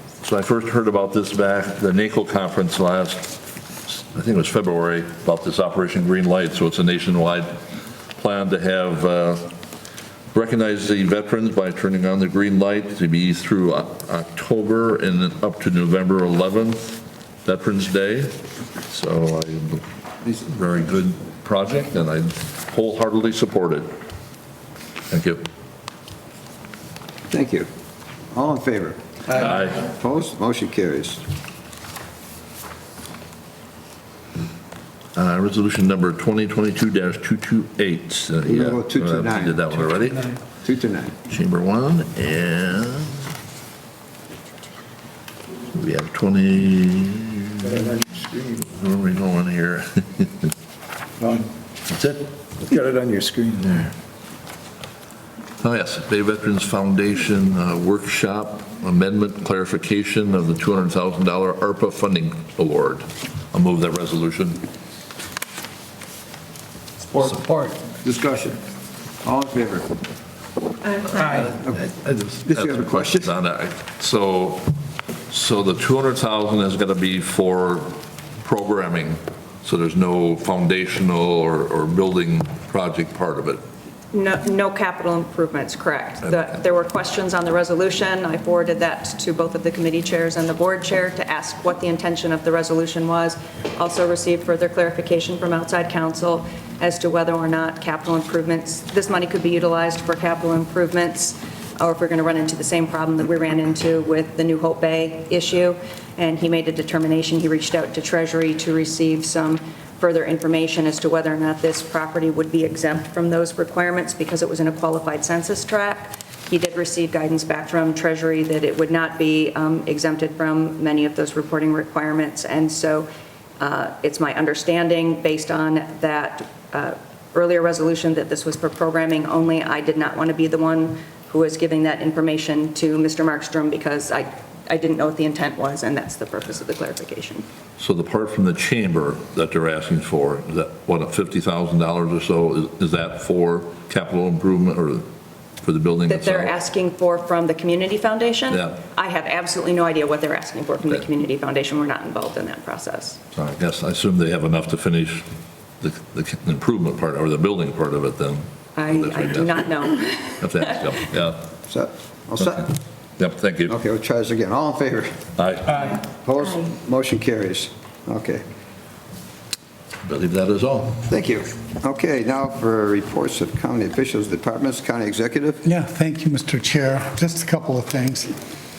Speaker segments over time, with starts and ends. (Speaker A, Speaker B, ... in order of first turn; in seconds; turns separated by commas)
Speaker A: 0.2-7.6, Speaker A: 8.2-9.5, Speaker A: 10.3-18.4, Speaker A: 18.9-23.9, Speaker A: 25.1-25.4, Speaker B: 27.3-27.7, Speaker B: 28.3-31.2, Speaker A: 29.3-29.8, Speaker A: 35.2-40.4, Speaker B: 38.4-39.7, Speaker B: 40.6-41.1, Speaker A: 41.3-43.3, Speaker A: 45.7-48.0, Speaker C: 47.9-48.4, Speaker A: 48.6-50.5, Speaker A: 51.9-52.2, Speaker C: 52.7-53.9, Speaker A: 55.6-64.6, Speaker C: 67.1-67.8, Speaker B: 68.0-68.6, Speaker B: 69.2-69.9, Speaker B: 71.2-73.3, Speaker A: 72.5-74.7, Speaker A: 75.3-83.6, Speaker D: 84.1-123.1, Speaker D: 123.6-137.4, Speaker A: 137.8-145.1, Speaker A: 145.6-146.5, Speaker D: 146.1-153.2, Speaker A: 148.5-148.8, Speaker A: 153.3-155.2, Speaker A: 155.8-159.7, Speaker D: 158.8-160.5, Speaker A: 160.4-161.5, Speaker B: 161.7-162.7, Speaker A: 163.2-163.7, Speaker B: 163.7-165.2, Speaker A: 165.4-165.9, Speaker B: 166.1-168.4, Speaker A: 170.1-171.1, Speaker B: 171.1-175.6, Speaker E: 175.6-178.3